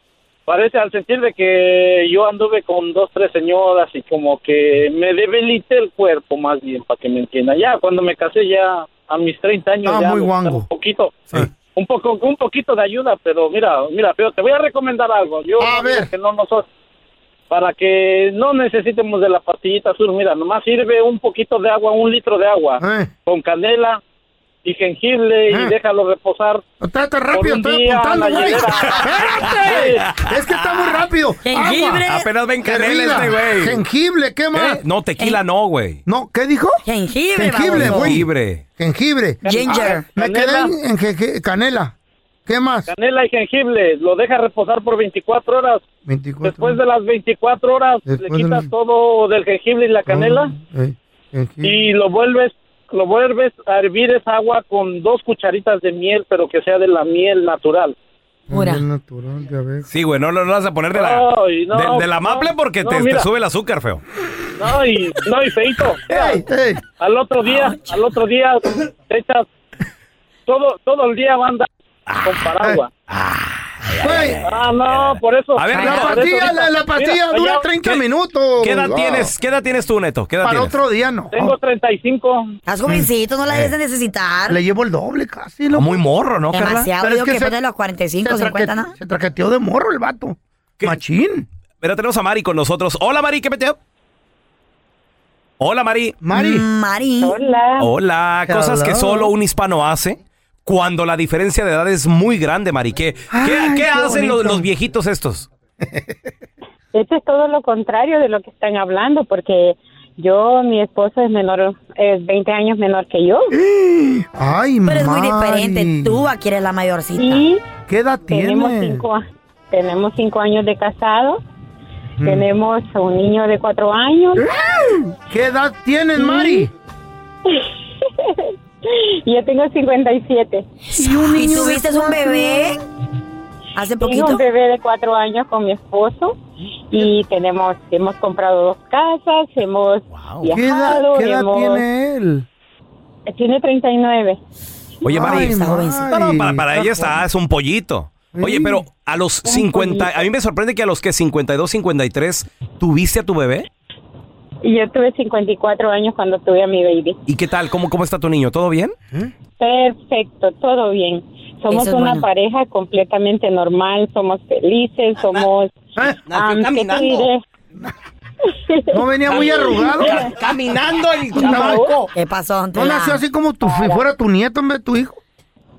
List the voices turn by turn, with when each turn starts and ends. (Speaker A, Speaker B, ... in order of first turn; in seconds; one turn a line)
Speaker A: 0.5-16.7
Speaker B: 9.8-10.7
Speaker B: 15.6-16.1
Speaker A: 17.5-24.0
Speaker B: 22.8-23.1
Speaker A: 24.6-26.6
Speaker B: 25.5-25.7
Speaker B: 26.8-32.0
Speaker A: 27.3-30.1
Speaker C: 29.4-30.3
Speaker D: 31.4-32.3
Speaker C: 32.1-33.8
Speaker B: 32.6-34.8
Speaker C: 34.5-36.0
Speaker B: 36.0-36.8
Speaker D: 36.9-38.1
Speaker B: 37.3-41.9
Speaker C: 37.7-38.6
Speaker A: 39.4-40.7
Speaker D: 39.4-40.1
Speaker B: 42.5-42.9
Speaker A: 42.9-45.8
Speaker B: 46.0-46.8
Speaker A: 46.4-50.5
Speaker B: 48.1-48.7
Speaker B: 50.0-51.8
Speaker A: 51.6-58.0
Speaker B: 58.5-59.9
Speaker D: 58.5-58.8
Speaker C: 59.9-64.0
Speaker A: 60.9-63.3
Speaker A: 64.6-66.4
Speaker B: 66.1-66.8
Speaker A: 67.0-69.5
Speaker A: 70.5-71.7
Speaker C: 72.1-72.5
Speaker A: 72.2-72.9
Speaker C: 73.1-76.3
Speaker B: 74.0-74.4
Speaker A: 74.4-77.6
Speaker B: 75.7-79.3
Speaker C: 78.6-80.7
Speaker B: 80.4-81.5
Speaker A: 81.3-82.5
Speaker D: 82.7-84.6
Speaker B: 82.9-83.7
Speaker B: 84.5-86.0
Speaker C: 85.7-86.9
Speaker D: 86.5-88.9
Speaker B: 87.0-87.5
Speaker B: 88.2-91.5
Speaker C: 91.8-93.8
Speaker C: 95.6-96.2
Speaker B: 96.2-96.7
Speaker D: 96.3-97.4
Speaker E: 97.2-97.9
Speaker C: 97.8-105.5
Speaker B: 98.5-99.3
Speaker B: 103.3-104.7
Speaker E: 106.9-113.5
Speaker B: 113.5-116.2
Speaker D: 114.8-117.4
Speaker E: 117.2-117.7
Speaker B: 117.9-119.1
Speaker E: 118.2-121.4
Speaker B: 122.2-122.5
Speaker E: 122.2-124.5
Speaker B: 124.6-126.7
Speaker E: 126.2-126.7
Speaker E: 127.5-130.7
Speaker B: 130.9-132.7
Speaker D: 131.0-132.8
Speaker D: 133.8-134.4
Speaker E: 134.0-136.4
Speaker E: 136.9-141.8
Speaker C: 140.1-140.5
Speaker B: 140.5-142.4
Speaker E: 143.3-144.4
Speaker C: 145.0-153.7
Speaker B: 145.1-147.2
Speaker D: 145.1-146.1
Speaker B: 148.3-148.8
Speaker E: 149.4-150.2
Speaker E: 154.6-157.2
Speaker C: 157.3-158.9
Speaker E: 159.6-167.4
Speaker D: 161.7-162.2
Speaker B: 165.9-166.2
Speaker C: 166.3-167.3
Speaker E: 168.4-170.3
Speaker B: 168.9-170.3
Speaker C: 169.9-172.1
Speaker E: 171.3-172.1
Speaker B: 171.3-171.9
Speaker D: 172.1-173.2
Speaker B: 172.7-175.2
Speaker E: 173.6-174.0